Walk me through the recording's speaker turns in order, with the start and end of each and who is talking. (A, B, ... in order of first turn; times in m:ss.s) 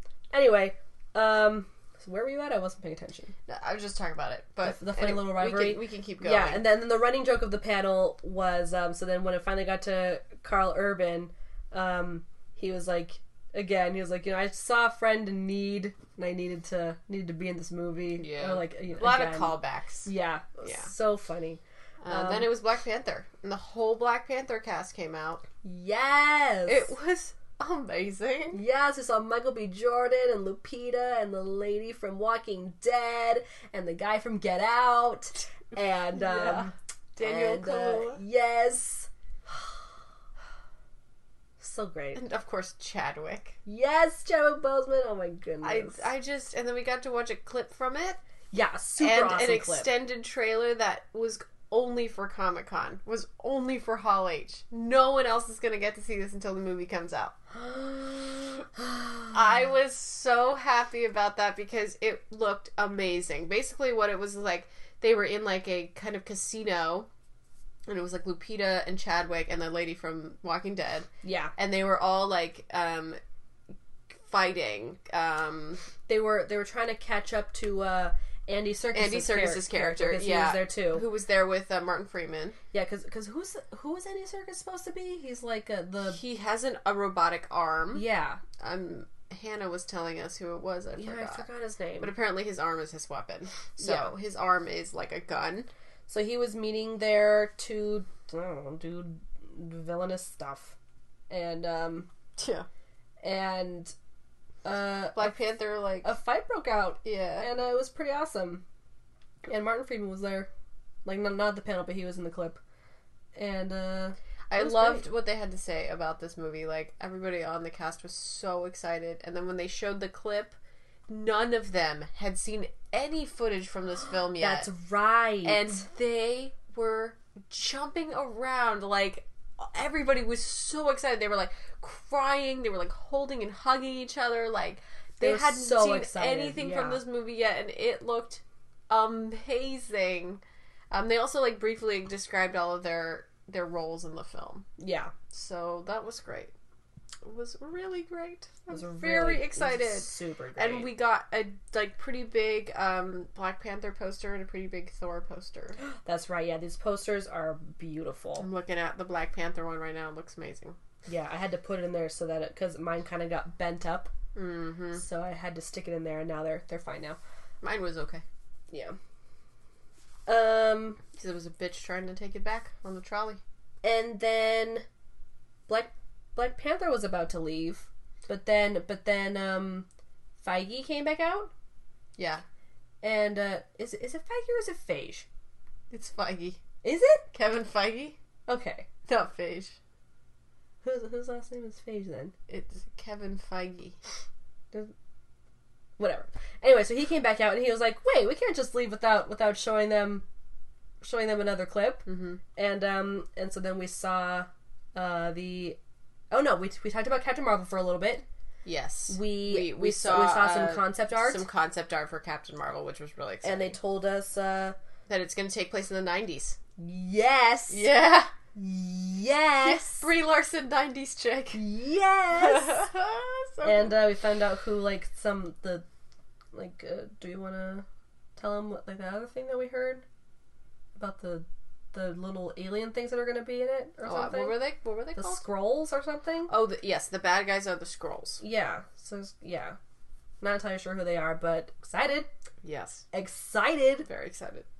0:00.3-0:03.3 A
0:03.5-0:06.6 B
0:04.6-0:22.5 A
0:18.2-0:20.1 B
0:20.6-0:20.9 B
0:22.0-0:25.4 B
0:25.6-0:26.9 A
0:26.7-0:28.6 B
0:28.5-0:39.7 A
0:36.1-0:38.2 B
0:41.6-0:42.2 A
0:42.1-0:43.6 B
0:43.6-0:46.0 A
0:45.6-0:48.2 B
0:48.5-0:49.9 A
0:49.0-0:57.4 B
0:57.5-0:59.3 A
0:59.3-1:07.1 B
1:07.8-1:13.2 B
1:11.2-1:11.5 A
1:14.1-1:15.8 B
1:16.1-1:21.0 A
1:18.9-1:22.6 B
1:22.7-1:26.2 A
1:26.1-1:28.0 B
1:27.9-1:28.4 A
1:28.6-1:31.4 B
1:31.0-1:32.1 A
1:32.0-1:35.7 B
1:33.8-1:34.1 A
1:36.1-1:40.8 A
1:41.3-1:42.1 A
1:42.4-1:42.7 B
1:43.2-1:43.9 A
1:44.6-1:45.4 A
1:45.1-1:46.1 B
1:46.0-1:48.6 A
1:47.0-1:47.5 B
1:49.4-1:50.5 A
1:51.0-1:52.6 A
1:53.3-1:55.0 A
1:54.5-2:00.6 B
2:01.1-2:04.7 B
2:04.4-2:05.8 A
2:05.4-2:24.7 B
2:15.2-2:17.0 A
2:24.8-2:25.1 A
2:25.3-2:26.5 B
2:27.2-2:35.8 B
2:28.7-2:30.9 A
2:35.8-2:38.5 A
2:38.4-2:40.8 B
2:41.1-2:44.1 A
2:44.3-2:45.0 B
2:44.9-2:47.2 A
2:47.6-2:48.2 B
2:48.7-2:49.0 A
2:50.3-2:51.0 A
2:51.1-2:53.4 B
2:53.8-2:54.8 A
2:55.7-2:59.9 A
3:00.4-3:01.5 A
3:02.2-3:02.4 B
3:03.0-3:05.2 A
3:05.9-3:06.6 B
3:06.8-3:07.2 A
3:07.3-3:08.2 B
3:08.5-3:08.9 A
3:09.0-3:09.8 B
3:10.8-3:12.3 A
3:12.5-3:14.0 B
3:16.0-3:20.2 A
3:21.0-3:25.8 A
3:22.1-3:22.4 B
3:26.3-3:28.2 A
3:28.6-3:33.8 B
3:29.1-3:31.4 A
3:33.4-3:34.8 A
3:35.1-3:36.6 B
3:36.8-3:37.9 A
3:37.7-3:38.3 B
3:38.5-3:40.0 A
3:39.6-3:41.6 B
3:41.5-3:42.8 A
3:42.3-3:44.0 B
3:43.6-3:45.8 A
3:46.5-3:47.8 A
3:48.4-3:50.0 A
3:51.0-3:54.6 A
3:54.0-3:55.4 B
3:55.1-3:56.5 A
3:56.5-3:58.4 B
3:58.4-3:59.8 A
4:00.4-4:02.3 A
4:02.6-4:03.0 B
4:03.1-4:04.1 A
4:04.0-4:04.7 B